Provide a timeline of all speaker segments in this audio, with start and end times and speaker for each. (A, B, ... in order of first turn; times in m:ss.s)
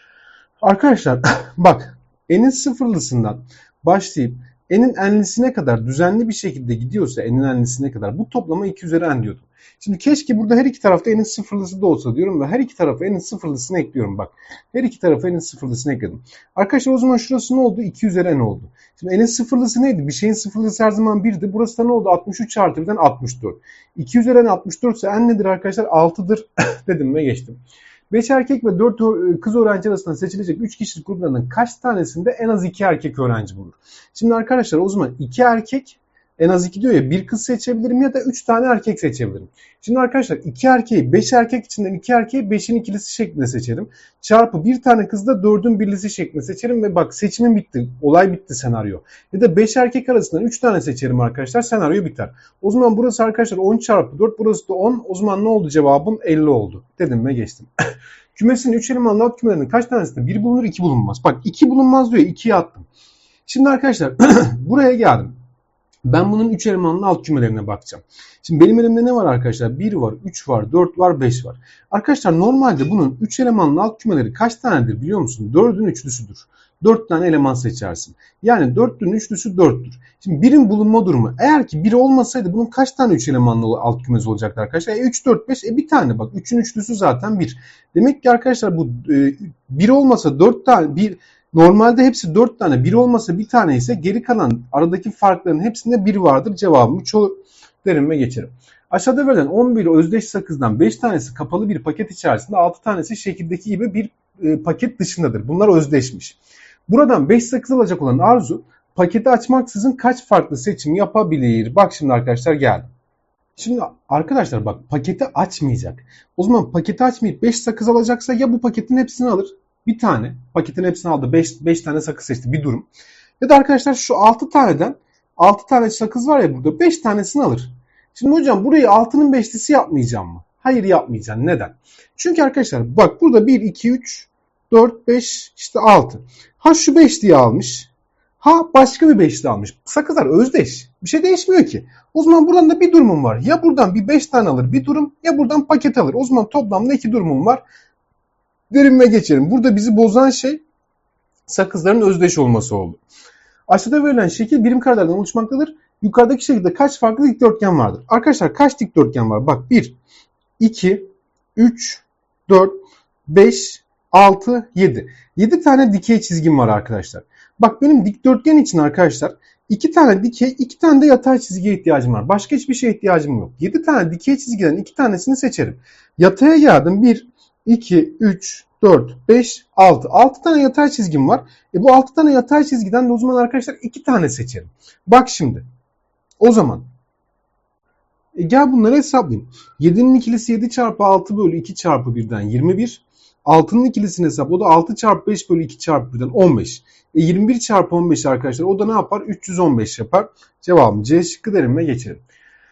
0:00.6-0:57.7 A
0:58.4-1:02.9 A
1:03.5-1:05.4 A
1:06.1-1:52.9 A
1:53.6-2:02.9 A
2:03.4-2:27.6 A
2:28.7-2:30.6 A
2:31.5-2:33.0 A
2:33.7-2:40.0 A
2:40.6-3:05.7 A
3:06.4-3:06.9 A
3:08.4-3:22.2 A